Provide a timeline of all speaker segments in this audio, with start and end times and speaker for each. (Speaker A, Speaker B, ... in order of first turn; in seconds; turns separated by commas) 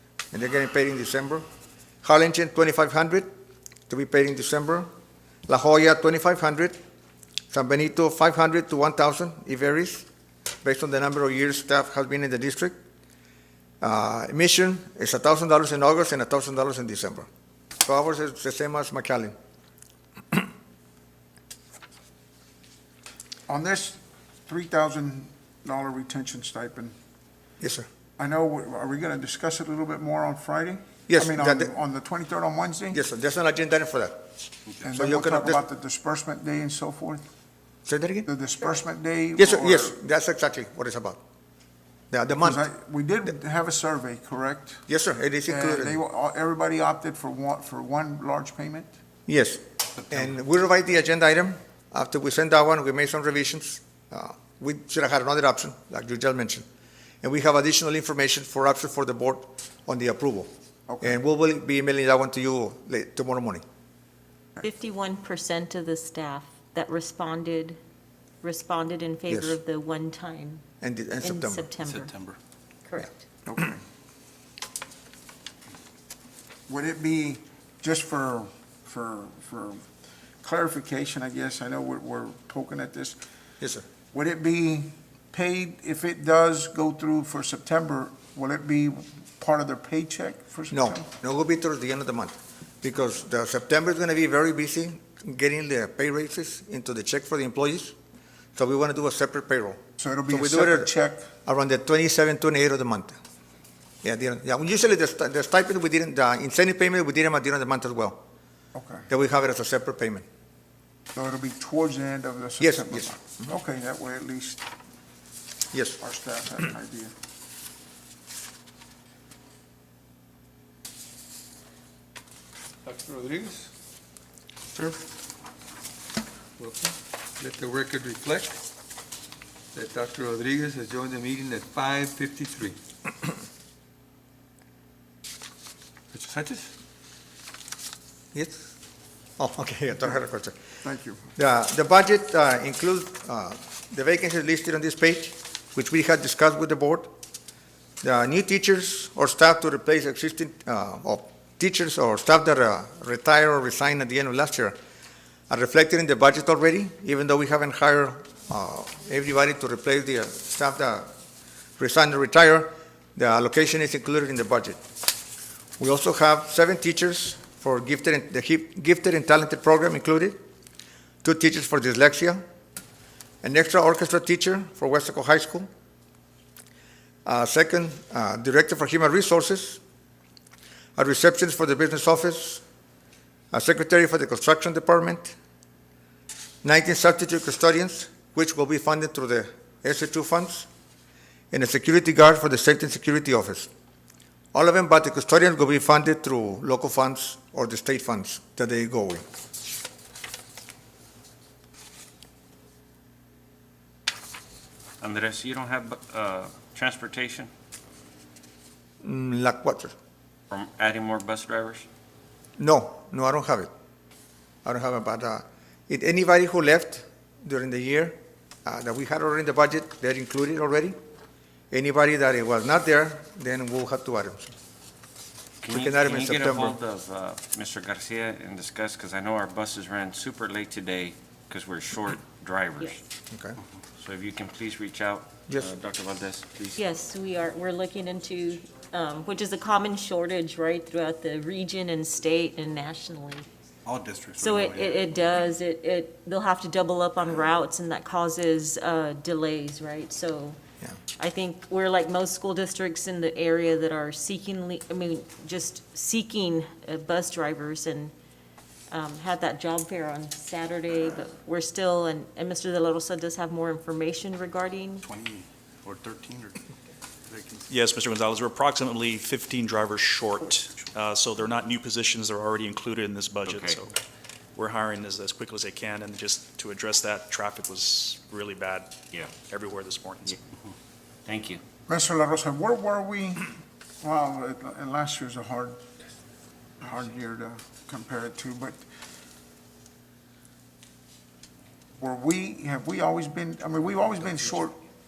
Speaker A: 0.3-1.4, Speaker A: 2.0-3.3, Speaker A: 3.9-4.9, Speaker A: 5.5-6.8, Speaker A: 7.5-10.1, Speaker A: 10.6-12.8, Speaker A: 13.8-17.3, Speaker A: 17.8-19.4, Speaker B: 23.5-26.9, Speaker A: 27.6-27.9, Speaker B: 28.2-33.0, Speaker A: 31.1-31.7, Speaker A: 32.9-34.2, Speaker B: 34.8-37.2, Speaker A: 35.0-35.6, Speaker A: 37.9-38.3, Speaker B: 38.3-40.0, Speaker A: 39.4-41.2, Speaker A: 42.1-42.6, Speaker B: 42.3-44.8, Speaker A: 44.9-46.0, Speaker B: 45.5-48.9, Speaker A: 49.3-56.6, Speaker A: 57.2-60.5, Speaker B: 60.9-61.2, Speaker A: 61.0-63.6, Speaker C: 64.6-67.8, Speaker C: 68.4-70.6, Speaker A: 69.3-69.6, Speaker A: 70.8-71.7, Speaker C: 71.2-72.2, Speaker D: 71.8-72.4, Speaker C: 72.8-73.2, Speaker B: 73.5-73.8, Speaker B: 76.7-79.8, Speaker B: 80.4-83.2, Speaker A: 83.6-83.8, Speaker B: 84.1-91.0, Speaker A: 90.7-97.9, Speaker A: 98.5-100.9, Speaker B: 100.0-101.3, Speaker A: 101.5-103.2, Speaker A: 104.0-108.2, Speaker B: 108.7-109.1, Speaker A: 109.1-110.2, Speaker B: 111.1-114.6, Speaker A: 112.6-113.1, Speaker A: 115.7-116.0, Speaker B: 116.0-117.1, Speaker E: 122.9-123.7, Speaker E: 126.6-128.5, Speaker E: 129.8-132.8, Speaker E: 136.1-136.6, Speaker A: 138.3-138.7, Speaker A: 139.4-140.6, Speaker B: 140.8-141.3, Speaker A: 141.4-147.1, Speaker A: 148.0-154.8, Speaker A: 155.5-161.1, Speaker A: 161.8-164.8, Speaker A: 165.8-170.4, Speaker A: 171.2-172.4, Speaker A: 173.4-175.7, Speaker A: 177.2-179.8, Speaker A: 181.0-182.6, Speaker A: 183.5-185.4, Speaker A: 186.6-190.7, Speaker A: 191.5-193.7, Speaker A: 194.5-199.2, Speaker F: 205.0-207.5, Speaker A: 209.0-209.9, Speaker F: 210.5-211.9, Speaker A: 212.6-213.7, Speaker A: 214.7-221.0, Speaker A: 221.7-224.5, Speaker F: 225.6-233.0, Speaker A: 225.7-226.8, Speaker A: 233.3-233.6, Speaker F: 234.0-236.8, Speaker C: 236.8-243.4, Speaker D: 243.9-245.2, Speaker C: 244.4-250.6, Speaker C: 251.2-258.1, Speaker C: 258.9-265.1, Speaker D: 265.0-266.6, Speaker D: 267.3-267.7, Speaker G: 267.7-273.9, Speaker F: 273.4-273.8, Speaker G: 274.6-280.4, Speaker F: 281.2-281.6, Speaker B: 281.9-283.5, Speaker B: 284.0-285.8, Speaker B: 286.8-288.8, Speaker B: 292.0-294.8